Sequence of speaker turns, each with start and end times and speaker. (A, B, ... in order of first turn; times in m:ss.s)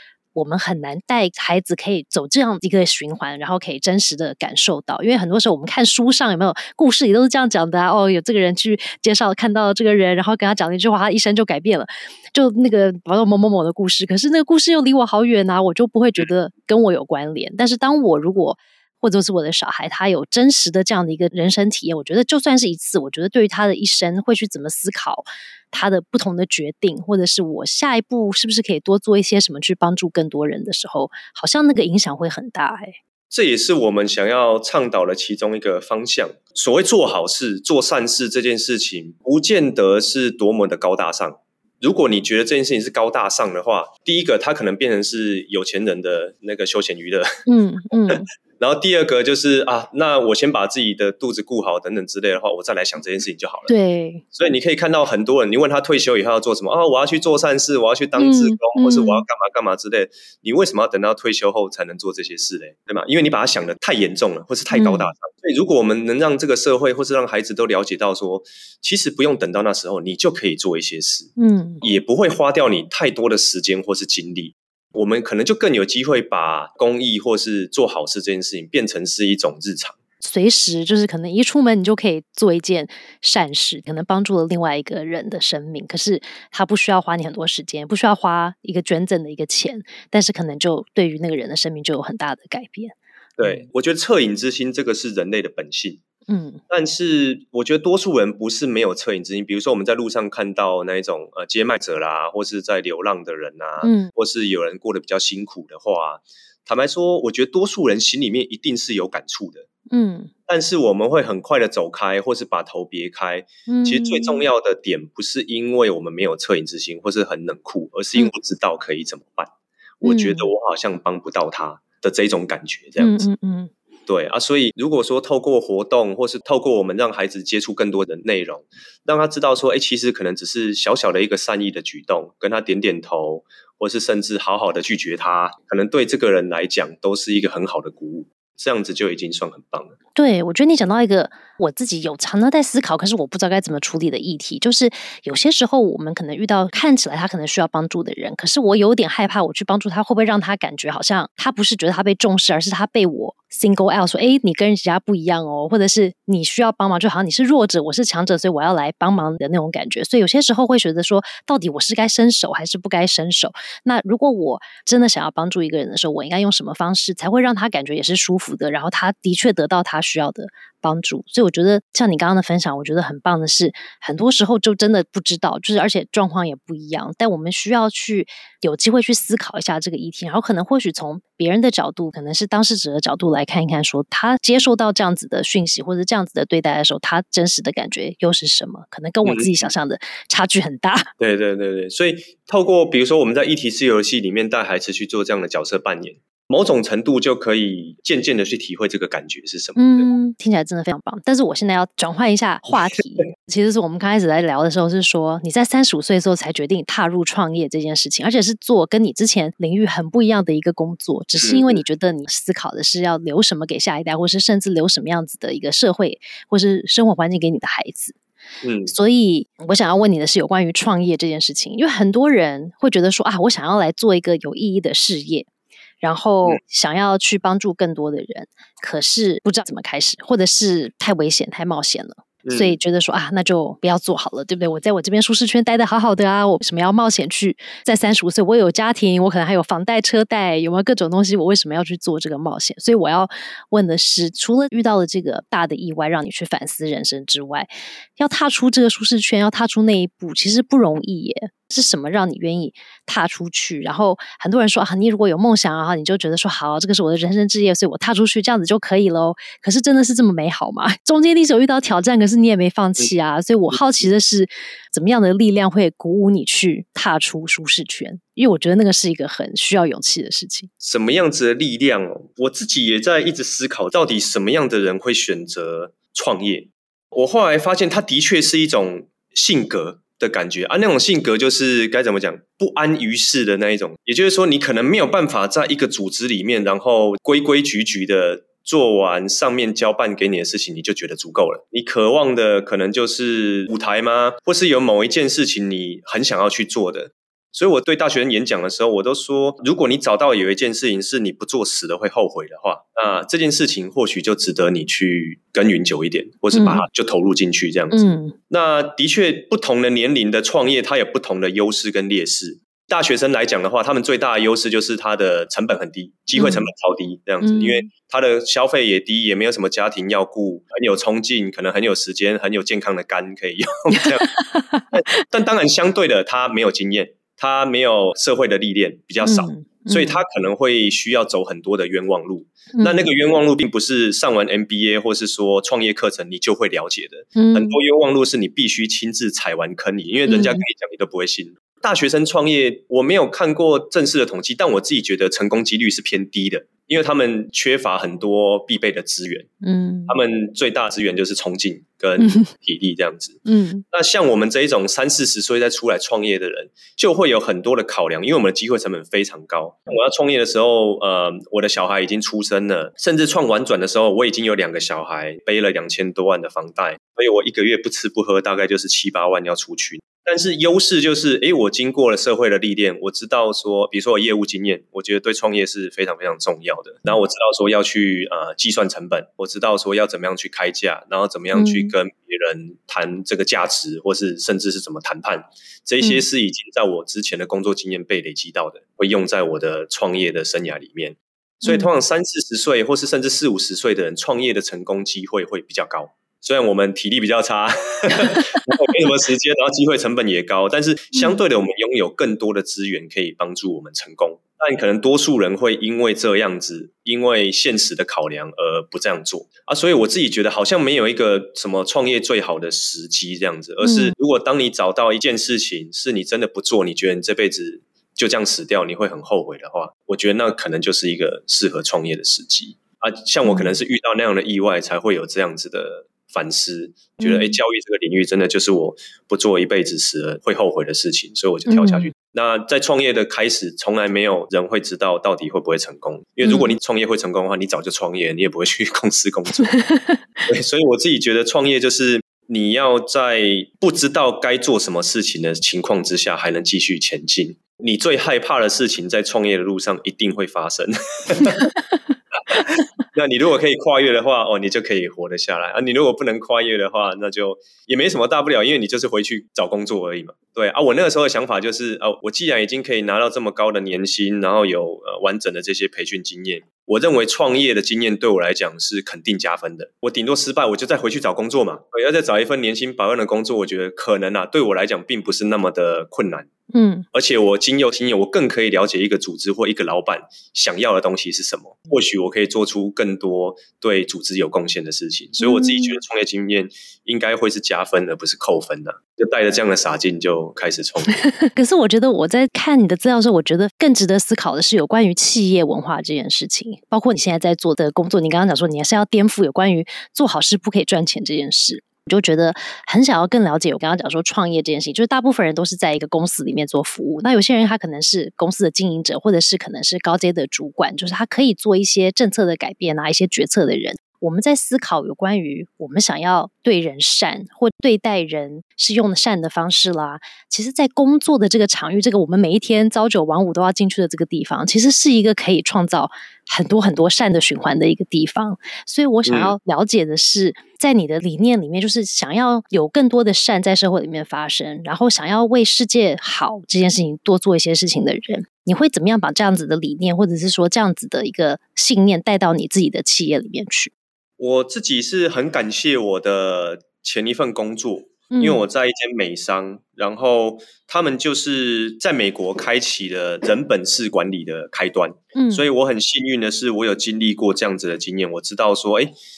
0:00.4-0:33.0 A
0:33.3-0:47.3 B
0:47.5-0:48.3 A
0:48.1-0:53.7 B
0:53.7-0:54.2 A
0:54.3-1:20.0 B
0:58.2-0:59.3 A
1:04.7-1:05.1 A
1:11.4-1:11.8 A
1:20.2-1:33.7 A
1:33.4-1:36.0 B
1:36.3-1:36.6 A
1:36.7-1:49.7 B
1:43.8-1:44.1 A
1:49.9-1:50.3 A
1:50.5-2:03.3 B
1:53.7-1:54.5 A
2:00.0-2:00.5 A
2:03.0-2:03.7 A
2:04.1-2:20.0 B
2:20.2-3:11.1 A
3:09.2-3:09.7 B
3:11.2-3:20.1 B
3:19.8-3:38.2 A
3:31.4-3:31.8 B
3:38.6-3:38.9 B
3:38.9-3:45.5 A
3:46.0-4:30.7 A
3:52.4-3:52.8 B
4:23.7-4:24.1 B
4:30.8-5:24.3 B
5:06.5-5:06.8 A
5:07.9-5:08.4 A
5:16.4-5:16.7 A
5:17.4-5:17.9 A
5:24.0-5:25.2 A
5:24.9-5:49.5 B
5:29.2-5:30.2 A
5:32.7-5:33.1 A
5:37.4-5:37.8 A
5:40.3-5:40.6 A
5:49.6-5:50.2 A
5:50.1-5:53.4 B
5:52.2-5:52.5 A
5:53.4-5:53.8 A
5:53.9-7:19.7 B
6:21.5-6:21.9 A
6:31.6-6:31.9 A
6:38.3-6:38.9 A
6:41.1-6:41.4 A
6:53.8-6:54.2 A
7:03.4-7:03.8 A
7:07.2-7:07.6 A
7:11.7-7:12.1 A
7:16.4-7:16.7 A
7:19.6-7:20.2 A
7:20.5-7:31.7 B
7:31.4-7:31.9 A
7:32.7-7:56.5 B
7:56.7-7:57.1 A
7:57.1-8:11.2 B
8:05.4-8:06.0 A
8:11.2-9:03.9 A
8:49.3-8:49.6 B
9:04.4-9:19.1 B
9:08.3-9:08.6 A
9:15.4-9:15.7 A